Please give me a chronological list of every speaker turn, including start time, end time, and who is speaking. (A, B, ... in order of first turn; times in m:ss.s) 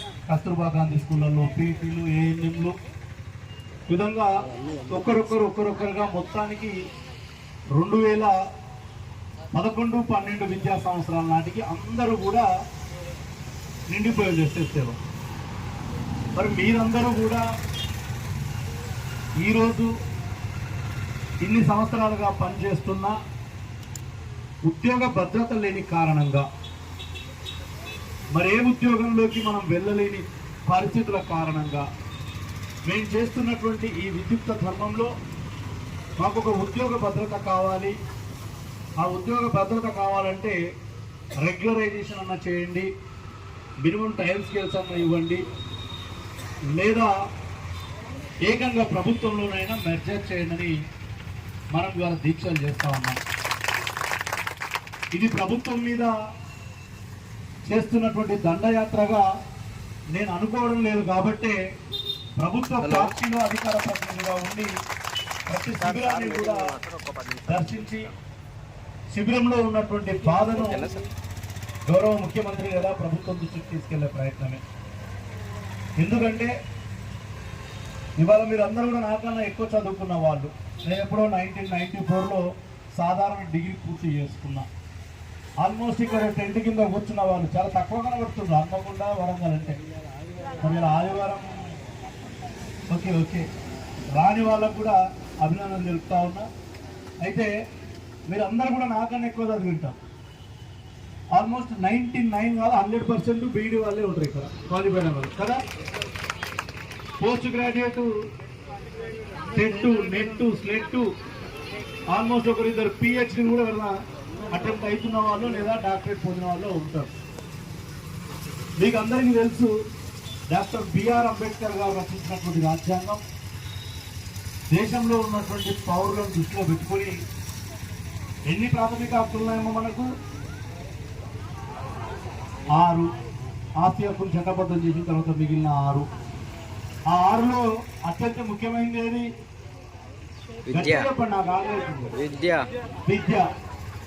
0:00.3-0:02.7 A
0:03.9-0:04.3 A
0:04.9-0:06.7 A
0:07.8-0:08.3 A
0:09.5-0:12.4 A
0:13.9-0:15.0 A
0:16.4-0:17.4 A
0:19.4-0:19.9 A
0:21.4-0:23.1 A
0:24.7-0:26.4 A
0:28.4-0:31.8 A
0:32.9-0:35.1 A
0:36.2-0:37.9 A
0:39.0-0:40.6 A
0:41.4-0:42.9 A
0:43.8-0:45.4 A
0:46.8-0:47.1 A
0:48.5-0:50.7 A
0:51.7-0:53.2 A
0:55.1-0:56.1 A
0:57.7-0:59.2 A
1:00.1-1:01.6 A
1:02.4-1:04.7 A
1:02.8-1:03.1 B
1:05.5-1:06.6 A
1:05.8-1:08.1 B
1:07.5-1:08.0 A
1:09.1-1:10.9 A
1:10.6-1:11.0 B
1:11.9-1:14.6 A
1:16.0-1:16.5 A
1:18.2-1:22.4 A
1:23.0-1:24.6 A
1:25.6-1:29.8 A
1:30.6-1:31.5 A
1:32.9-1:33.4 A
1:34.1-1:36.4 A
1:37.2-1:37.5 A
1:38.3-1:40.0 A
1:41.4-1:45.6 A
1:47.2-1:48.1 A
1:49.5-1:51.0 A
1:52.1-1:53.9 A
1:54.5-1:57.1 A
1:58.8-1:59.7 A
2:00.5-2:03.2 A
2:04.7-2:07.1 A
2:08.5-2:10.1 A
2:12.8-2:13.1 A
2:13.8-2:16.0 A
2:17.1-2:19.3 A
2:20.7-2:21.1 B
2:20.7-2:22.1 A
2:22.1-2:22.7 B
2:23.0-2:23.4 A